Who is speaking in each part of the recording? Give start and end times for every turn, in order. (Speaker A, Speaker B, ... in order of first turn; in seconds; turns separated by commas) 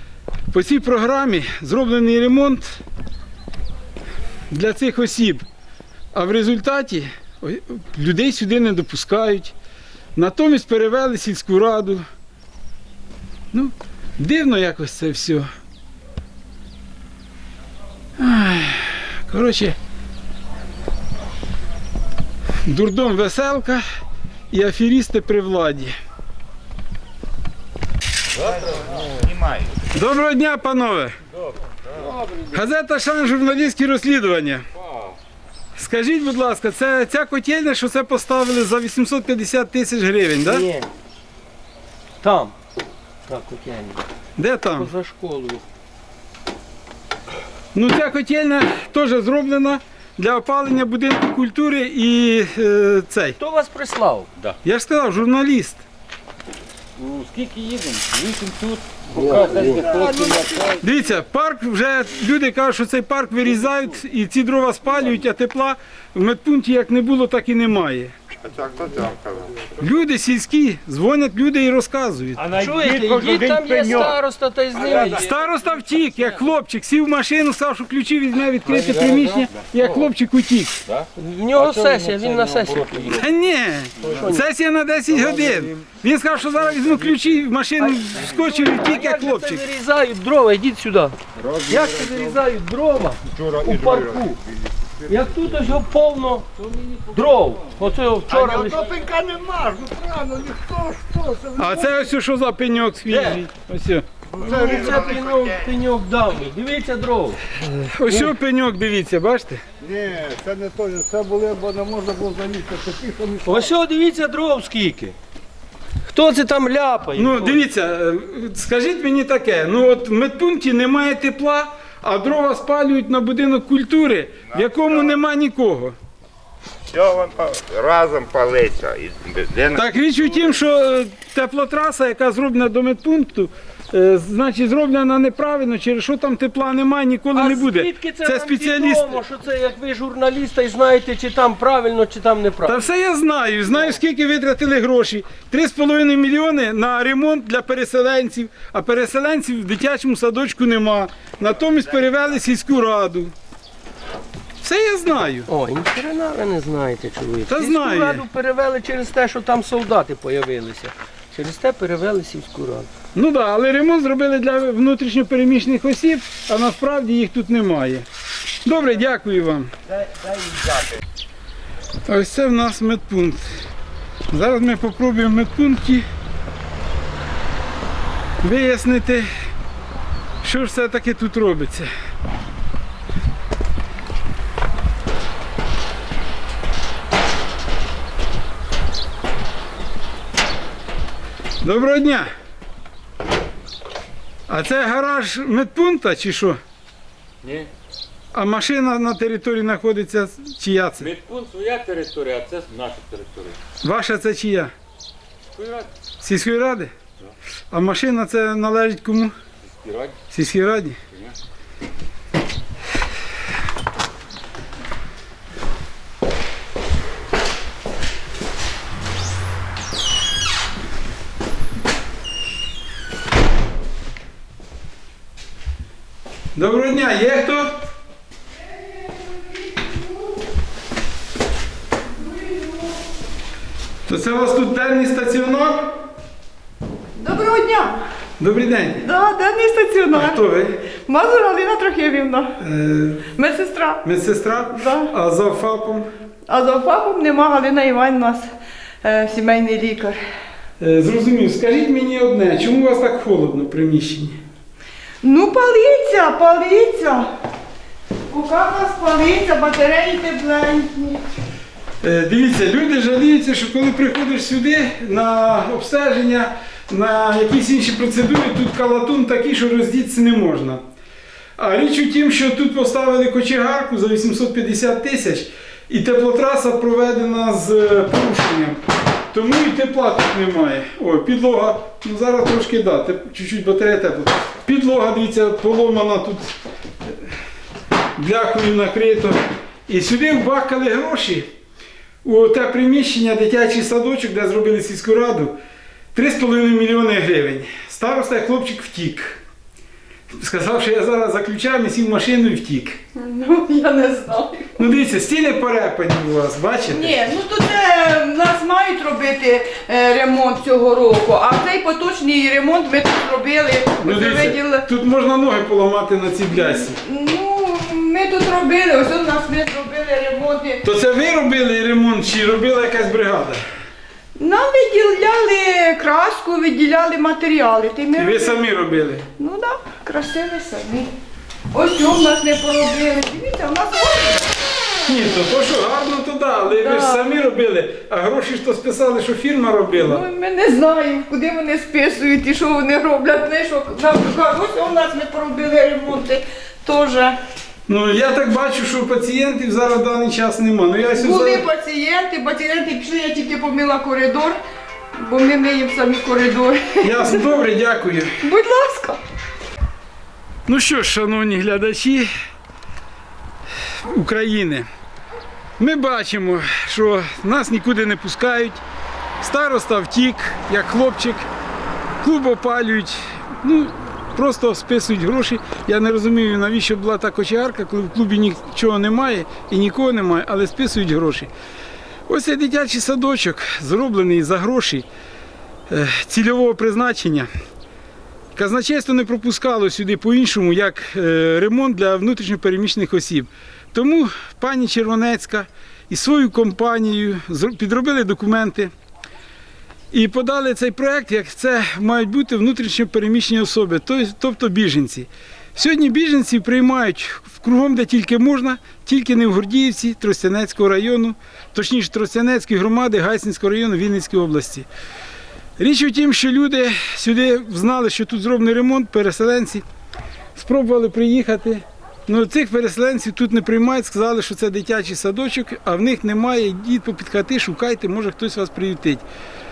Speaker A: 0.5-2.8, Speaker A: 4.5-5.5, Speaker A: 6.1-9.5, Speaker A: 10.2-12.0, Speaker A: 13.5-15.5, Speaker A: 18.2-19.8, Speaker A: 22.6-23.8, Speaker A: 24.5-25.9, Speaker B: 28.4-28.9, Speaker C: 29.1-29.7, Speaker A: 29.9-31.2, Speaker B: 31.9-32.5, Speaker A: 32.5-34.6, Speaker B: 34.8-35.1, Speaker A: 35.8-40.7, Speaker D: 40.4-40.9, Speaker D: 42.2-42.5, Speaker D: 43.3-44.0, Speaker A: 44.4-44.9, Speaker D: 44.7-45.6, Speaker A: 47.7-53.4, Speaker D: 53.4-54.3, Speaker A: 54.6-55.8, Speaker B: 57.0-60.8, Speaker E: 59.1-60.2, Speaker F: 59.4-60.6, Speaker A: 60.8-68.1, Speaker C: 68.4-69.6, Speaker A: 69.8-72.5, Speaker B: 72.4-74.2, Speaker D: 72.6-75.2, Speaker E: 72.9-74.0, Speaker B: 74.7-76.5, Speaker A: 75.1-80.8, Speaker B: 78.6-80.1, Speaker B: 80.9-83.3, Speaker D: 81.2-83.2, Speaker A: 83.2-89.6, Speaker B: 84.0-84.3, Speaker D: 84.1-84.5, Speaker B: 85.1-85.8, Speaker B: 86.5-87.3, Speaker D: 87.8-91.2, Speaker E: 91.4-92.4, Speaker D: 91.7-94.4, Speaker E: 93.3-94.5, Speaker E: 95.0-95.6, Speaker D: 95.1-96.5, Speaker B: 96.6-97.5, Speaker D: 97.1-98.9, Speaker E: 98.3-102.1, Speaker A: 101.6-104.7, Speaker D: 103.1-103.4, Speaker E: 104.3-105.3, Speaker D: 104.4-107.4, Speaker A: 107.6-109.6, Speaker E: 109.8-113.8, Speaker D: 113.4-115.1, Speaker D: 116.1-117.6, Speaker A: 117.2-126.0, Speaker C: 124.5-125.2, Speaker C: 126.9-129.9, Speaker A: 129.7-139.2, Speaker D: 137.3-142.9, Speaker A: 142.6-153.3, Speaker D: 143.7-143.9, Speaker A: 154.6-155.5, Speaker D: 155.5-162.9, Speaker A: 157.5-158.2, Speaker A: 163.1-168.1, Speaker A: 168.6-169.7, Speaker A: 172.0-173.5, Speaker A: 174.3-176.1, Speaker A: 178.4-179.3, Speaker A: 180.4-181.9, Speaker A: 191.6-192.3, Speaker A: 194.5-196.6, Speaker B: 197.4-197.7, Speaker A: 198.3-201.1, Speaker B: 201.0-203.6, Speaker A: 203.8-204.7, Speaker B: 205.5-205.9, Speaker A: 206.2-206.9, Speaker A: 207.7-209.3, Speaker B: 209.6-210.2, Speaker A: 210.3-211.0, Speaker A: 226.5-227.8, Speaker A: 234.1-235.9, Speaker F: 237.2-238.0, Speaker A: 238.4-239.0, Speaker F: 239.0-240.4, Speaker A: 240.1-240.8, Speaker F: 240.9-242.6, Speaker A: 242.6-243.2, Speaker F: 243.3-244.0, Speaker A: 244.0-246.1, Speaker F: 244.7-245.1, Speaker F: 246.5-248.5, Speaker F: 249.0-250.2, Speaker A: 250.8-254.4, Speaker F: 255.2-257.3, Speaker F: 258.3-261.2, Speaker A: 262.0-270.8, Speaker A: 271.6-286.5, Speaker A: 288.1-291.5, Speaker A: 292.2-295.6, Speaker A: 296.1-299.4, Speaker A: 300.3-303.0, Speaker F: 303.1-304.8, Speaker A: 304.8-307.2, Speaker F: 306.9-314.9, Speaker A: 314.0-317.0, Speaker F: 316.5-320.8, Speaker A: 320.8-323.6, Speaker F: 324.4-328.7, Speaker A: 328.1-329.3, Speaker F: 329.4-331.1, Speaker F: 331.7-334.5, Speaker A: 335.0-340.2, Speaker F: 336.7-337.3, Speaker F: 339.9-347.4, Speaker A: 347.9-351.6, Speaker F: 351.1-354.6, Speaker F: 355.1-357.5, Speaker A: 357.0-358.4, Speaker F: 358.4-359.2, Speaker A: 360.7-362.3, Speaker A: 364.1-364.9, Speaker A: 365.8-368.8, Speaker A: 369.4-371.5, Speaker A: 372.2-381.5, Speaker A: 382.3-385.1, Speaker A: 385.9-387.5, Speaker A: 388.5-398.9, Speaker A: 400.1-414.9, Speaker A: 415.8-419.8, Speaker A: 420.6-429.2